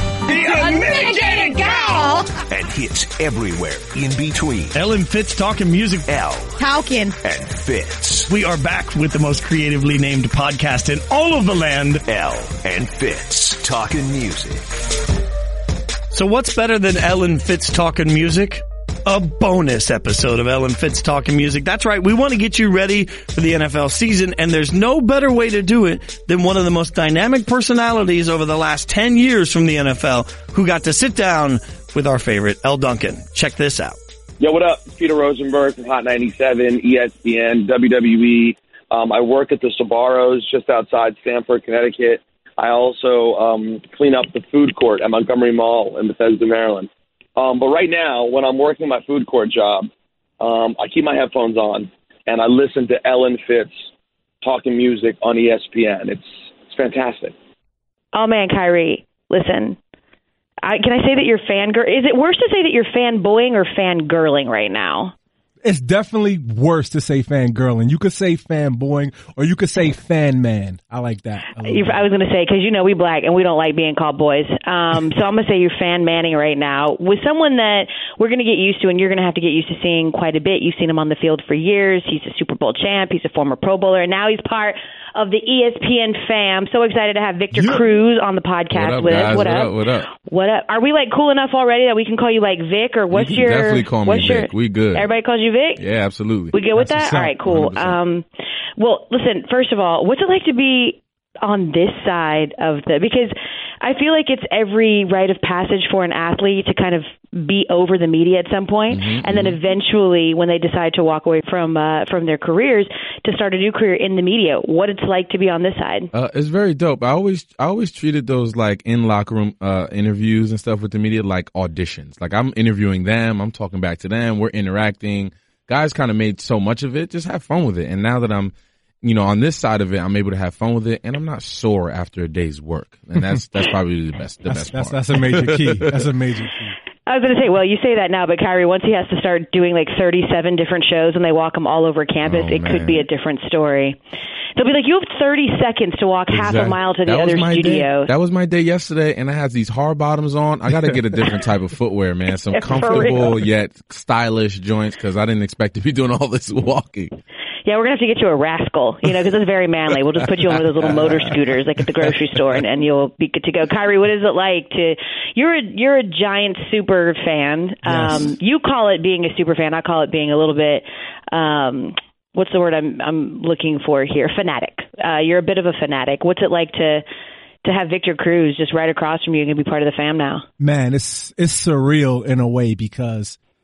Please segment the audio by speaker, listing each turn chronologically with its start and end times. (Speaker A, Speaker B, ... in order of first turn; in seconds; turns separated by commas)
Speaker A: 0.3-2.0, Speaker B: 0.3-2.4, Speaker C: 2.5-4.9, Speaker A: 4.7-6.0, Speaker C: 6.0-6.6, Speaker B: 6.6-7.2, Speaker C: 7.2-8.3, Speaker A: 8.3-12.0, Speaker C: 12.1-14.6, Speaker A: 16.1-34.0, Speaker D: 34.4-49.9, Speaker D: 50.4-53.7, Speaker D: 54.4-57.3, Speaker E: 58.1-59.8, Speaker E: 60.6-65.1, Speaker F: 65.6-72.0, Speaker E: 71.6-95.8, Speaker F: 87.5-87.8, Speaker G: 88.7-90.1, Speaker G: 93.1-95.1, Speaker G: 95.8-96.5, Speaker E: 96.5-98.2, Speaker F: 96.8-97.3, Speaker G: 97.4-98.0, Speaker E: 98.8-116.1, Speaker G: 108.9-109.6, Speaker G: 116.1-135.8, Speaker F: 134.4-136.8, Speaker E: 137.1-144.0, Speaker G: 142.2-143.0, Speaker E: 144.6-148.1, Speaker G: 146.3-157.1, Speaker E: 152.5-153.3, Speaker E: 157.6-177.0, Speaker F: 167.8-168.3, Speaker E: 177.6-180.4, Speaker F: 180.6-183.4